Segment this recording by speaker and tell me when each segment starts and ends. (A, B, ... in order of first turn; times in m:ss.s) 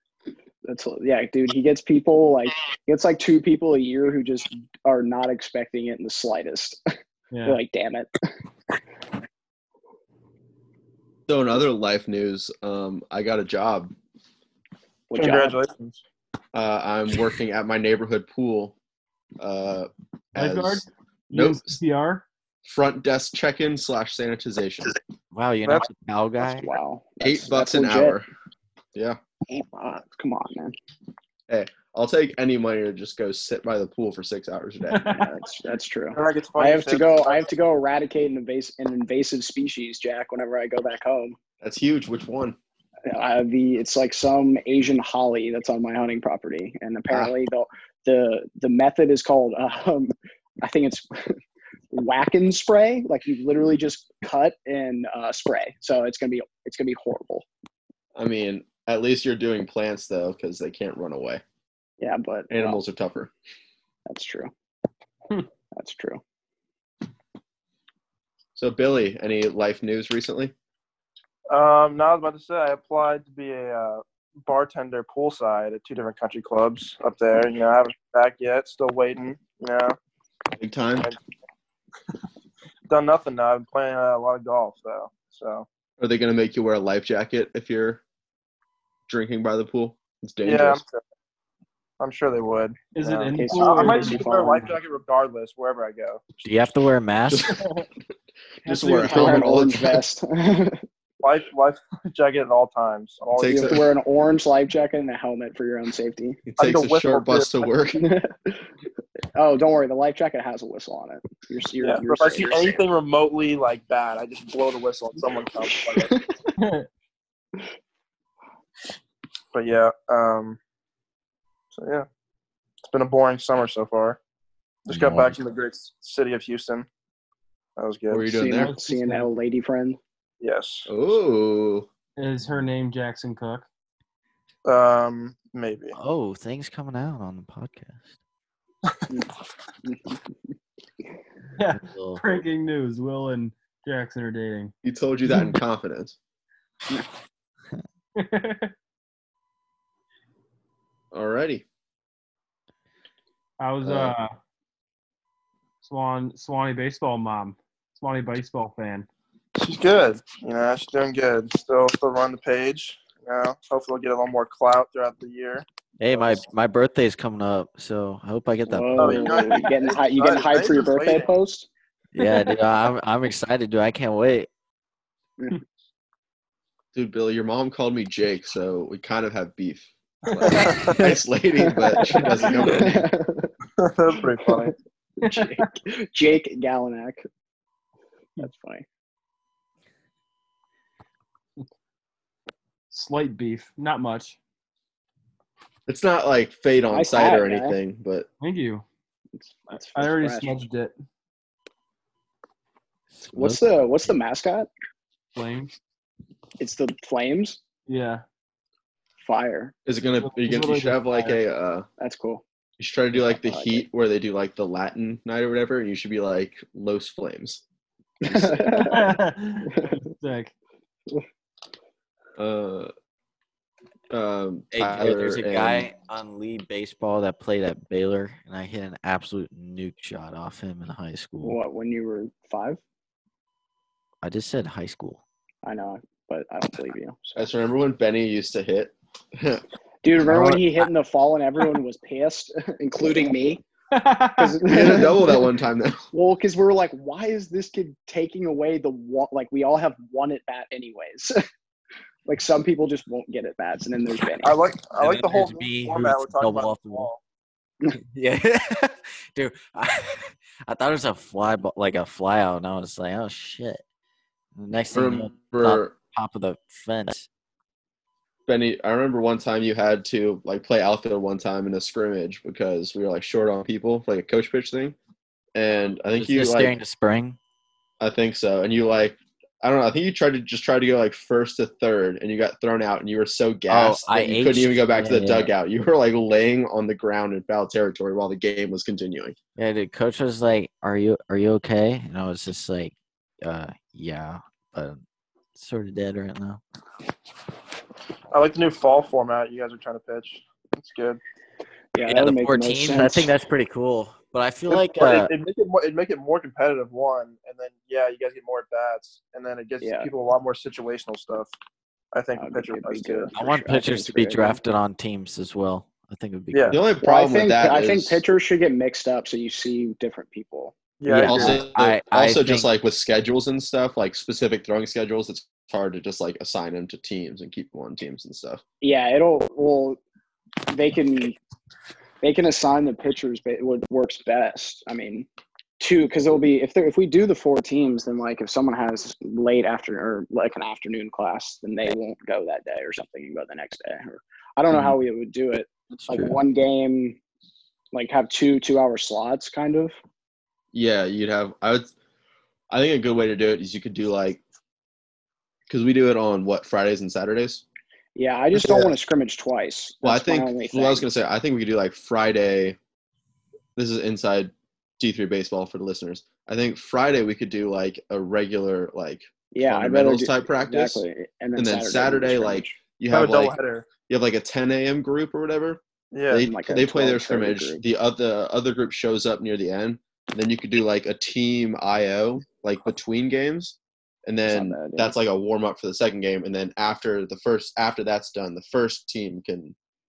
0:00.6-0:06.8 A
0:07.3-0:07.6 B
0:07.4-0:08.2 A
0:11.3-0:13.9 C
0:15.1-0:15.6 A
0:15.2-0:16.0 D
0:16.5-0:18.8 C
0:19.4-0:21.8 C
0:20.4-0:22.2 B
0:22.6-0:24.9 C
0:25.3-0:26.7 E
0:26.4-0:28.2 A
0:27.2-0:28.2 C
0:29.5-0:30.8 A
0:31.5-0:35.1 C
0:34.9-0:35.5 B
0:35.0-0:41.4 A
0:36.1-0:37.5 D
0:41.6-0:42.6 C
0:43.1-0:51.4 A
0:51.9-0:57.4 A
0:58.1-1:01.4 C
1:02.0-1:02.8 A
1:02.5-1:03.3 C
1:04.1-1:04.5 A
1:05.7-1:06.2 A
1:08.6-1:10.5 C
1:11.5-1:20.0 D
1:20.6-1:21.1 C
1:22.9-1:25.7 D
1:26.0-1:28.0 C
1:29.1-1:30.8 C
1:30.4-1:31.0 D
1:32.0-1:36.2 D
1:32.9-1:34.8 B
1:33.3-1:34.7 A
1:36.4-1:37.6 E
1:37.3-1:37.6 C
1:38.6-1:40.0 C
1:38.7-1:39.6 B
1:39.1-1:40.8 A
1:41.2-1:43.8 D
1:43.4-1:43.8 C
1:43.4-1:46.4 A
1:46.4-1:48.1 C
1:46.6-1:47.7 D
1:48.0-1:48.5 A
1:49.4-1:52.8 A
1:51.8-1:56.1 D
1:55.9-1:56.5 A
1:56.6-1:56.9 B
1:59.5-2:00.6 D
2:01.7-2:02.1 D
2:02.9-2:04.2 D
2:04.9-2:06.9 D
2:04.9-2:05.4 E
2:07.8-2:08.3 D
2:08.1-2:08.7 C
2:08.3-2:10.0 A
2:08.6-2:09.3 B
2:10.4-2:10.9 D
2:10.9-2:11.9 C
2:12.2-2:13.7 B
2:14.6-2:15.9 D
2:15.9-2:18.1 E
2:19.8-2:20.2 A
2:21.6-2:24.7 B
2:21.7-2:22.2 E
2:24.8-2:26.2 C
2:28.2-2:28.7 B
2:31.1-2:31.6 C
2:33.6-2:34.3 B
2:33.8-2:34.1 C
2:35.8-2:39.1 B
2:39.6-2:46.4 D
2:46.0-2:49.4 E
2:48.7-2:51.7 A
2:49.0-2:51.3 D
2:52.1-2:54.5 E
2:52.2-2:52.6 B
2:56.9-3:03.1 C
3:00.4-3:01.0 D
3:01.6-3:03.5 A
3:02.1-3:02.8 B
3:03.8-3:04.8 D
3:05.2-3:07.2 A
3:05.2-3:05.7 B
3:08.4-3:08.8 A
3:12.9-3:14.4 B
3:15.9-3:18.3 C
3:16.9-3:17.8 A
3:18.4-3:18.8 B
3:19.4-3:20.7 A
3:19.9-3:20.9 B
3:23.1-3:23.8 E
3:23.3-3:24.7 A
3:25.4-3:25.7 B
3:26.6-3:27.6 A
3:27.9-3:28.2 B
3:29.2-3:29.7 A
3:29.9-3:31.9 C
3:30.2-3:31.4 B
3:32.0-3:32.4 A
3:32.8-3:37.6 C
3:33.2-3:33.8 A
3:38.2-3:39.2 A
3:38.7-3:40.5 B
3:42.4-3:42.9 C
3:44.1-3:45.9 C
3:44.7-3:51.6 E
3:51.4-3:52.8 A
3:54.2-3:55.2 E
3:55.6-3:57.5 A
3:57.4-3:59.6 C
4:00.0-4:03.6 A
4:00.2-4:00.9 E
4:03.9-4:05.0 B
4:04.4-4:05.4 A
4:04.6-4:06.0 C
4:06.1-4:11.4 A
4:12.2-4:14.6 A
4:14.4-4:17.2 D
4:15.0-4:17.1 E
4:18.1-4:23.8 E
4:24.5-4:27.3 E
4:24.9-4:26.0 C
4:28.5-4:35.0 C
4:35.5-4:36.8 C
4:36.2-4:37.4 E
4:38.0-4:49.4 C
4:43.7-4:45.5 E
4:49.6-4:55.0 E
4:55.5-4:56.6 E
4:58.3-5:01.2 D
5:02.0-5:03.3 A
5:02.0-5:05.3 E
5:04.7-5:11.5 D
5:09.8-5:10.1 A
5:12.1-5:13.3 D
5:12.4-5:14.6 A
5:13.3-5:16.8 E
5:16.5-5:16.8 D
5:16.7-5:18.2 C
5:17.0-5:20.8 A
5:21.0-5:21.6 D
5:21.0-5:22.7 E
5:21.3-5:28.6 C
5:28.8-5:30.0 A
5:30.7-5:31.4 A
5:32.2-5:35.3 A
5:35.8-5:47.2 A
5:45.9-5:46.3 E
5:47.9-5:50.0 A
5:50.7-5:51.9 C
5:52.7-5:54.4 C
5:55.7-5:57.6 C
5:58.2-6:01.0 A
5:58.5-5:58.9 C
6:00.0-6:02.8 C
6:03.8-6:11.0 C
6:09.5-6:12.8 A
6:11.6-6:13.5 C
6:13.1-6:13.9 D
6:14.1-6:15.8 C
6:16.1-6:16.4 D
6:16.3-6:29.8 C
6:16.4-6:17.8 A
6:24.5-6:25.1 A